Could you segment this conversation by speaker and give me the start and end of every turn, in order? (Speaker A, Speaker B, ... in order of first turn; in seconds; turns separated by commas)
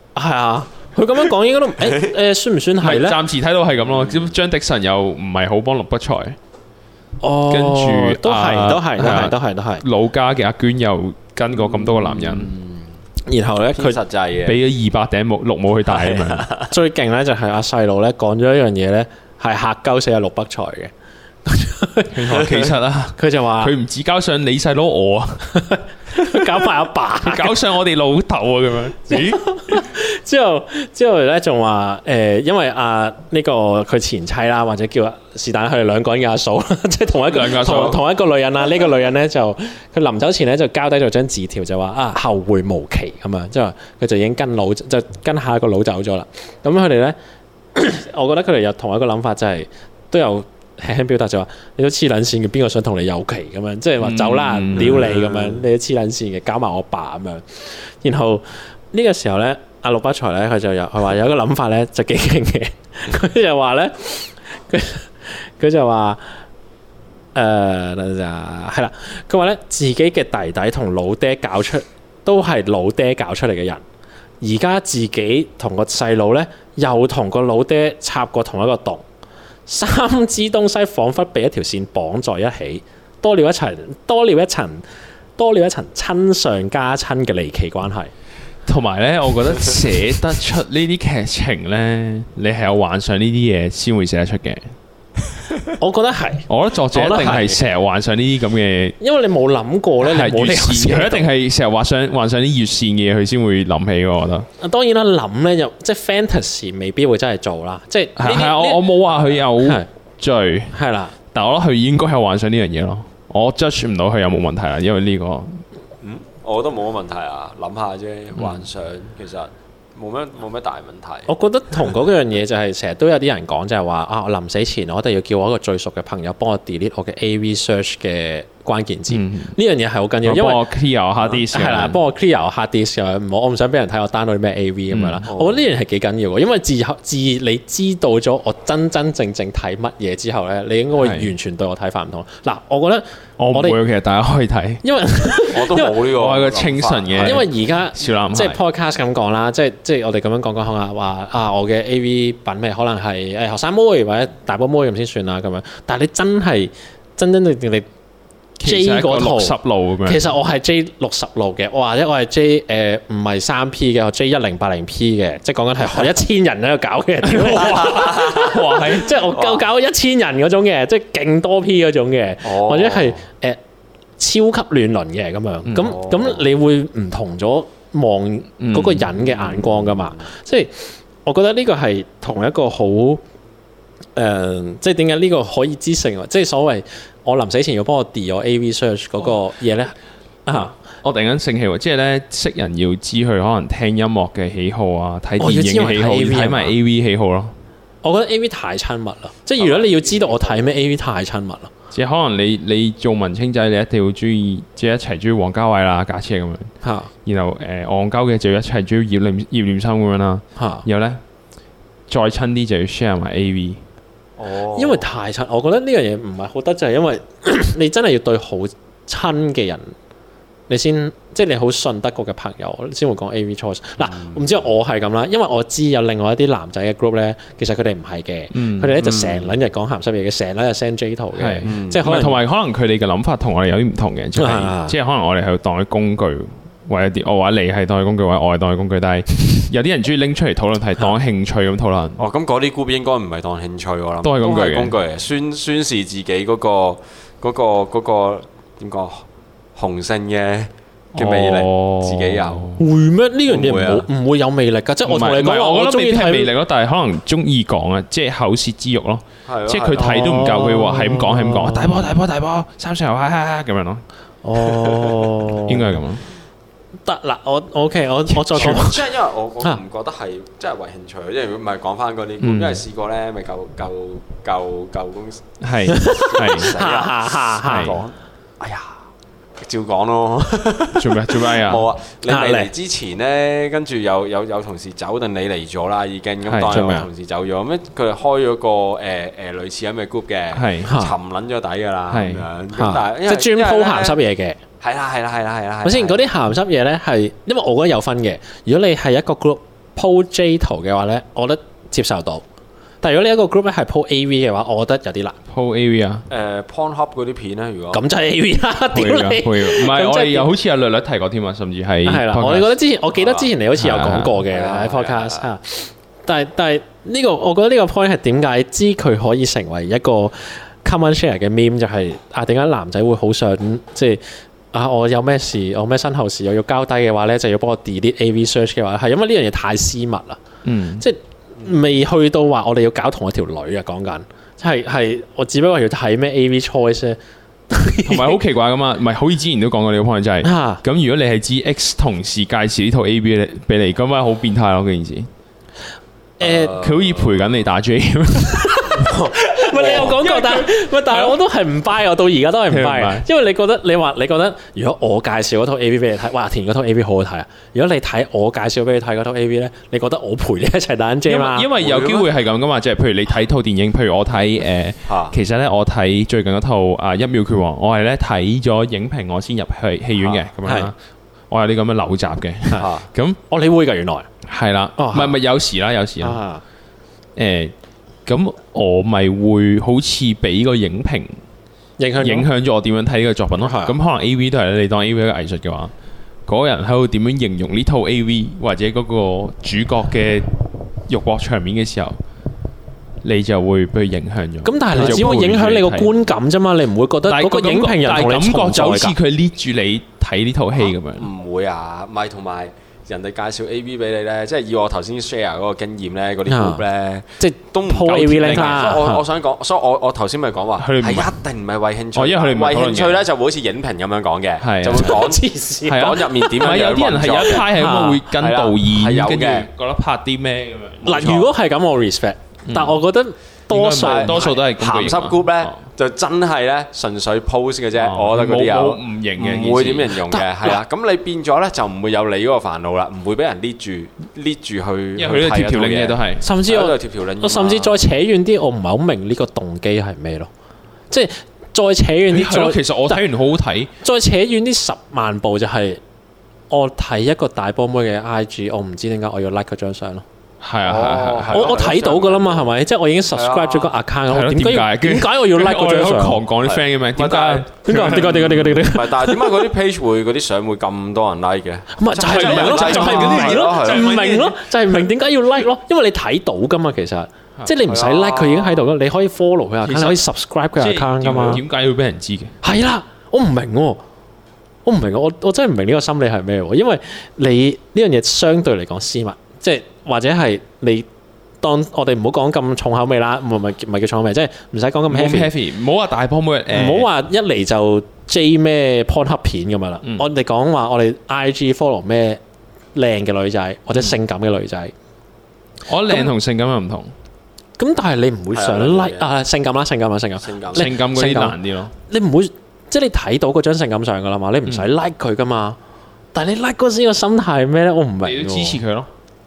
Speaker A: 0.1-3.2, Speaker B: 2.8-6.3, Speaker C: 3.8-4.3, Speaker A: 7.2-9.8, Speaker B: 7.5-12.5, Speaker C: 11.5-12.9, Speaker A: 13.2-14.0, Speaker C: 13.7-14.6, Speaker B: 14.4-16.4, Speaker C: 15.9-16.7, Speaker A: 16.7-20.9, Speaker A: 21.4-22.4, Speaker B: 22.1-25.5, Speaker C: 22.3-22.7, Speaker A: 23.1-23.7, Speaker A: 25.6-27.6, Speaker B: 27.2-29.8, Speaker A: 29.1-47.1, Speaker B: 37.3-38.0, Speaker A: 47.7-66.2, Speaker B: 54.0-55.1, Speaker C: 54.7-55.6, Speaker A: 67.3-73.8, Speaker A: 74.4-79.0, Speaker A: 79.7-84.8, Speaker A: 85.4-88.1, Speaker B: 88.7-94.7, Speaker A: 95.8-97.5, Speaker B: 96.5-99.0, Speaker C: 97.0-97.6, Speaker A: 99.0-101.3, Speaker B: 100.0-104.5, Speaker A: 104.6-108.9, Speaker B: 108.2-110.7, Speaker A: 109.6-109.8, Speaker A: 110.7-111.1, Speaker B: 111.3-115.6, Speaker C: 116.0-121.3, Speaker B: 118.4-118.6, Speaker A: 121.3-130.6, Speaker B: 129.1-129.6, Speaker B: 130.2-132.0, Speaker A: 131.4-143.8, Speaker B: 134.9-135.2, Speaker C: 135.3-135.6, Speaker B: 141.0-141.3, Speaker B: 143.4-144.8, Speaker A: 144.8-146.0, Speaker C: 145.5-147.5, Speaker B: 146.1-148.6, Speaker A: 147.2-157.8, Speaker B: 158.6-160.2, Speaker A: 158.6-173.6, Speaker B: 167.2-169.1, Speaker C: 167.8-168.3, Speaker C: 169.2-169.7, Speaker C: 172.4-173.2, Speaker A: 174.2-183.2, Speaker B: 175.7-175.9, Speaker C: 175.8-176.4, Speaker B: 178.6-179.1, Speaker C: 179.2-180.2, Speaker A: 184.2-189.9, Speaker A: 190.4-190.7, Speaker B: 190.5-197.5, Speaker A: 195.4-196.7, Speaker A: 198.0-201.7, Speaker C: 199.6-200.7, Speaker B: 201.9-206.7, Speaker A: 206.8-207.1, Speaker B: 207.2-211.2, Speaker A: 210.6-210.8, Speaker B: 212.1-213.8, Speaker C: 214.4-215.1, Speaker A: 214.7-219.9, Speaker A: 220.7-232.4, Speaker C: 224.0-224.6, Speaker B: 228.5-228.9, Speaker C: 229.0-229.5, Speaker B: 231.4-242.2, Speaker C: 231.6-232.0, Speaker A: 234.3-234.9, Speaker C: 242.2-252.7, Speaker B: 244.2-244.9, Speaker B: 251.1-252.8, Speaker A: 252.8-256.5, Speaker C: 253.5-254.1, Speaker B: 255.1-264.0, Speaker C: 259.4-260.5, Speaker A: 259.9-262.1, Speaker A: 264.4-265.9, Speaker C: 264.9-265.2, Speaker B: 265.6-266.2, Speaker A: 267.0-269.0, Speaker B: 268.3-268.8, Speaker C: 268.5-275.4, Speaker B: 272.4-272.8, Speaker B: 275.6-276.8, Speaker A: 275.9-277.9, Speaker C: 276.1-279.0, Speaker B: 277.6-278.0, Speaker C: 279.6-294.2, Speaker B: 280.9-281.9, Speaker A: 282.3-282.7, Speaker B: 286.4-286.9, Speaker A: 286.7-287.1, Speaker B: 290.5-290.9, Speaker A: 290.8-291.1, Speaker B: 292.1-292.5, Speaker A: 292.7-294.6, Speaker C: 294.8-296.3, Speaker A: 295.8-302.4, Speaker A: 303.0-305.4, Speaker B: 305.5-306.2, Speaker C: 306.3-308.0, Speaker A: 307.9-310.5, Speaker B: 308.9-312.7, Speaker A: 312.0-324.2, Speaker C: 313.2-313.5, Speaker B: 313.8-314.4, Speaker C: 314.5-315.5, Speaker A: 324.7-330.4, Speaker B: 330.6-331.0, Speaker A: 331.0-337.2, Speaker A: 337.7-338.4, Speaker B: 338.0-345.3, Speaker A: 340.4-340.8, Speaker A: 346.4-346.8, Speaker C: 346.4-347.5, Speaker B: 346.7-349.1, Speaker A: 348.7-361.7, Speaker C: 349.7-350.1, Speaker B: 349.7-351.4, Speaker B: 352.7-353.2, Speaker B: 361.3-370.9, Speaker C: 361.8-362.3, Speaker C: 365.1-365.3, Speaker A: 370.6-370.9, Speaker B: 371.5-373.4, Speaker C: 372.7-373.1, Speaker A: 373.5-374.3, Speaker B: 374.4-376.4, Speaker A: 375.0-375.3, Speaker A: 376.2-376.6, Speaker B: 377.4-377.7, Speaker B: 378.2-381.4, Speaker A: 382.0-382.5, Speaker B: 382.2-385.9, Speaker A: 383.6-383.9, Speaker B: 386.5-390.5, Speaker B: 391.1-392.2, Speaker B: 393.2-396.1, Speaker A: 394.6-399.1, Speaker B: 397.3-401.3, Speaker C: 400.8-417.7, Speaker A: 406.5-406.8, Speaker A: 407.4-409.2, Speaker B: 408.1-409.0, Speaker B: 410.8-411.4, Speaker B: 412.1-413.2, Speaker B: 414.6-415.2, Speaker A: 414.9-416.5, Speaker B: 415.9-421.4, Speaker A: 417.7-418.2, Speaker C: 418.3-419.7, Speaker A: 421.0-424.6, Speaker B: 422.7-423.0, Speaker B: 423.7-425.8, Speaker C: 424.0-438.0, Speaker B: 428.0-430.2, Speaker A: 430.3-430.7, Speaker B: 435.2-436.4, Speaker A: 436.4-440.5, Speaker A: 441.1-443.2, Speaker B: 442.3-443.9, Speaker A: 444.0-446.0, Speaker A: 446.7-450.2, Speaker B: 450.6-451.8, Speaker C: 450.8-452.7, Speaker A: 451.5-456.4, Speaker C: 453.3-453.9, Speaker B: 454.3-458.7, Speaker C: 456.6-464.3, Speaker A: 457.8-459.7, Speaker A: 461.9-471.6, Speaker B: 462.1-464.6, Speaker C: 467.8-468.9, Speaker B: 469.8-470.2, Speaker B: 470.8-472.6, Speaker A: 472.6-474.0, Speaker A: 474.8-481.1, Speaker A: 481.6-485.5, Speaker B: 485.1-487.1, Speaker A: 486.7-492.4, Speaker A: 492.9-494.9, Speaker B: 495.9-497.1, Speaker A: 497.8-505.8, Speaker C: 498.5-499.3, Speaker C: 500.4-500.9, Speaker B: 500.7-501.9, Speaker A: 506.3-508.8, Speaker B: 508.2-509.1